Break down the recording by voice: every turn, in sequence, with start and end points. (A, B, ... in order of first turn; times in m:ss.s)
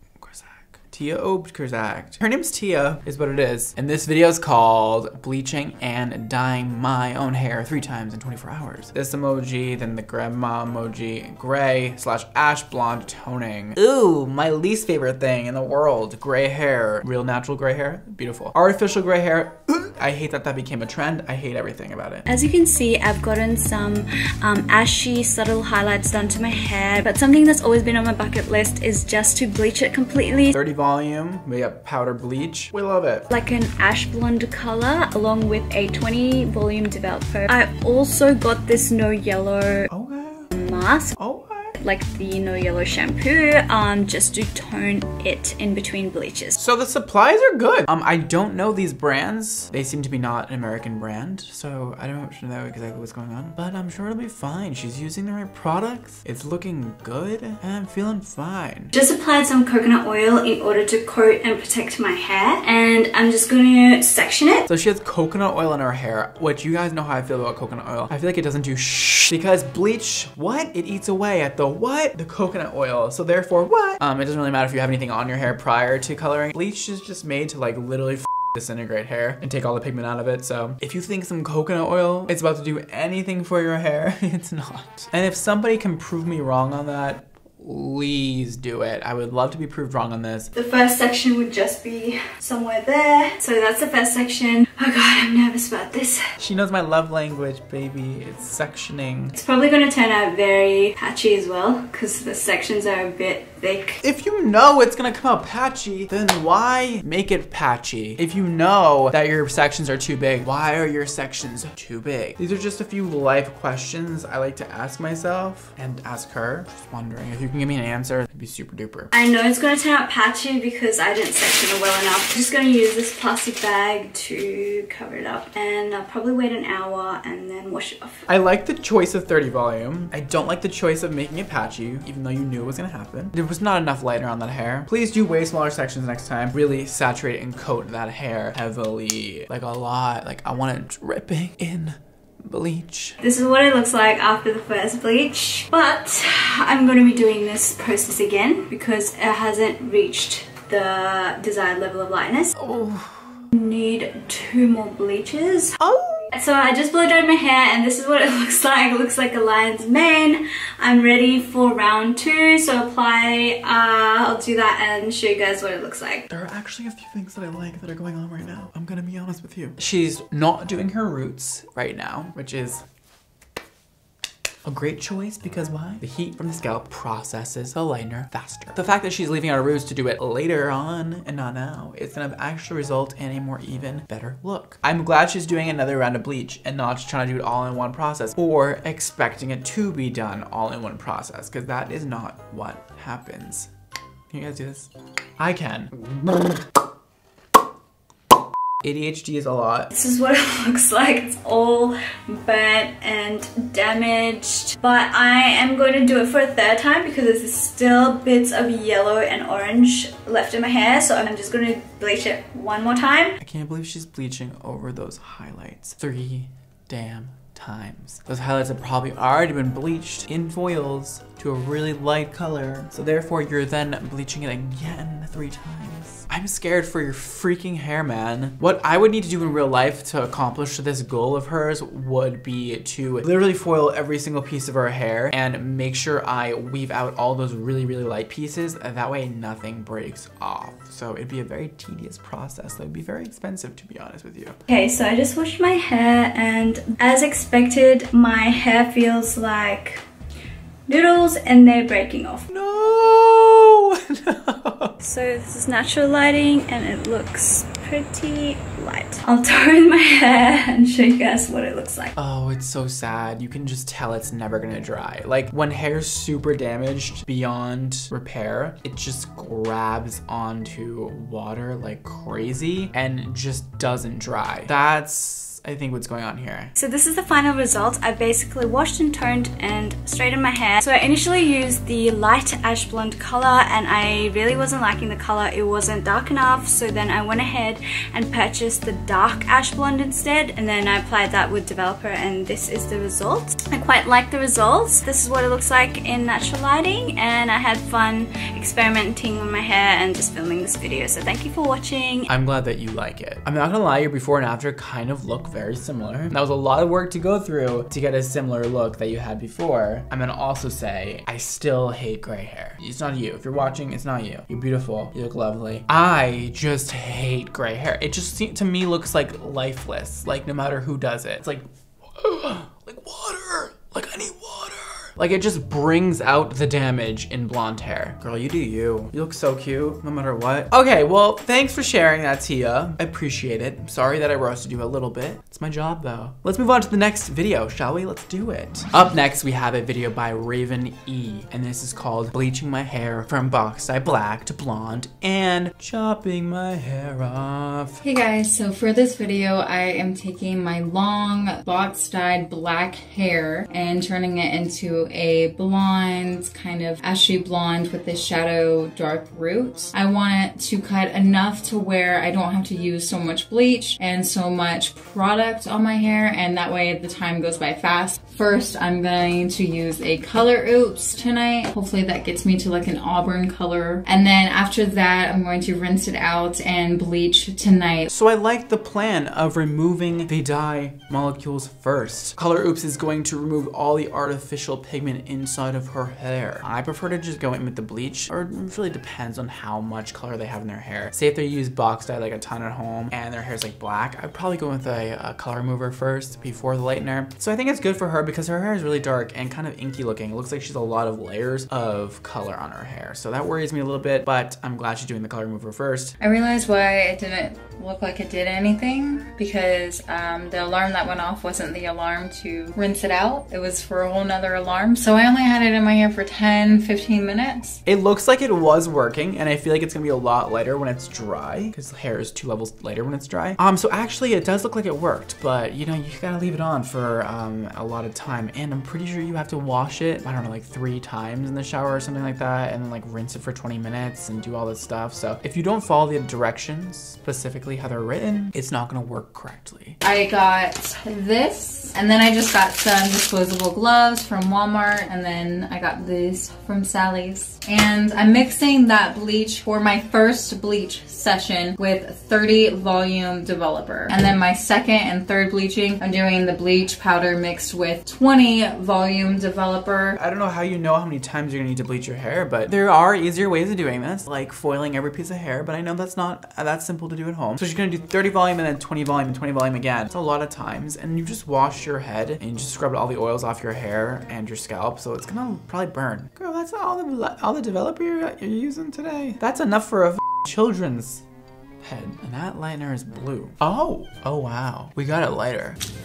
0:00.2-0:22.2 A
0:22.3-0:30.5 B
0:30.5-0:33.3 A
0:33.3-0:39.9 B
0:39.9-0:40.5 A
0:40.5-0:41.1 B
0:41.2-0:41.7 A
0:41.8-0:46.6 B
0:46.6-0:58.9 A
0:58.9-1:04.6 B
1:04.6-1:30.5 A
1:30.5-1:36.2 B
1:36.4-1:39.3 A
1:39.3-1:44.0 B
1:44.0-1:59.1 A
1:59.1-2:08.2 B
2:08.3-2:23.2 A
2:23.2-2:32.5 B
2:32.6-2:33.4 A
2:33.5-2:35.8 B
2:35.8-2:36.3 A
2:36.3-2:46.3 B
2:46.3-2:52.8 A
2:54.6-3:13.7 A
3:14.3-3:16.6 A
3:18.8-3:19.9 A
3:19.9-3:33.4 B
3:33.4-4:04.6 A
4:04.7-4:10.0 B
4:10.9-4:12.5 B
4:12.5-4:15.0 A
4:15.0-4:22.1 B
4:22.2-4:36.7 A
4:36.8-5:02.3 B
5:02.3-5:48.0 A
5:48.0-6:18.1 C
6:18.1-6:46.1 A
6:46.2-6:57.8 C
6:57.8-7:20.0 A
7:20.0-7:40.2 C
7:40.2-8:01.2 A
8:01.8-8:05.8 A